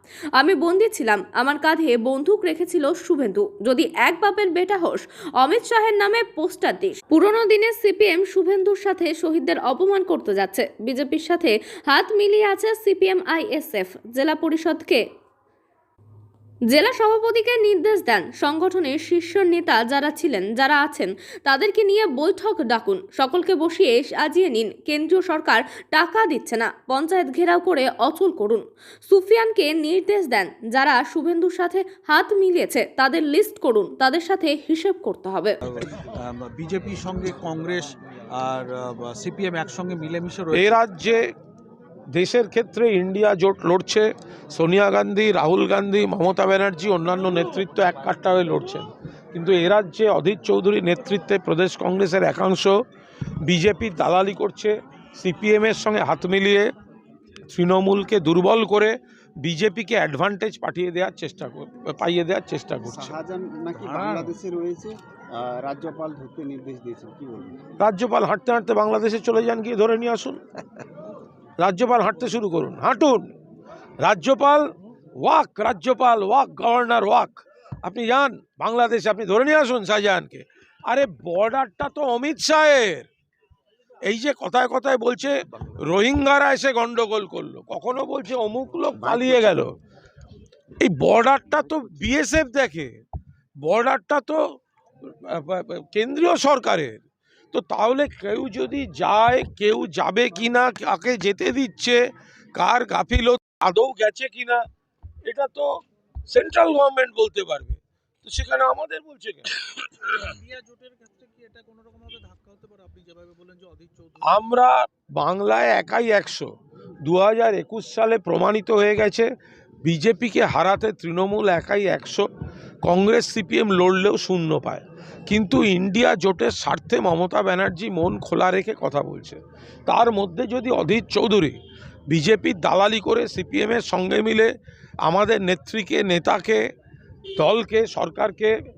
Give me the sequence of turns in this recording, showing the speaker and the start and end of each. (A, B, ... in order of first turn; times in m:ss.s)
0:00.4-0:15.0 A
0:16.7-0:35.6 A
0:35.6-0:40.8 B
0:40.5-0:41.2 C
0:42.1-0:52.7 C
0:53.4-0:56.7 C
0:57.5-1:03.2 C
1:02.8-1:07.6 D
1:03.7-1:04.3 B
1:07.8-1:10.4 C
1:11.6-1:13.3 C
1:14.0-1:14.6 C
1:15.2-1:23.0 C
1:24.0-1:29.7 C
1:29.0-1:29.6 D
1:30.8-1:32.9 C
1:33.6-1:34.4 C
1:35.2-1:42.0 C
1:42.6-1:44.6 C
1:45.2-1:45.7 C
1:46.3-1:49.7 C
1:50.0-1:54.4 B
1:54.2-1:56.5 C
1:57.0-1:59.3 C
1:59.8-2:02.2 C
2:02.8-2:11.6 C
2:12.1-2:14.5 C
2:15.0-2:16.6 C
2:17.4-2:18.5 C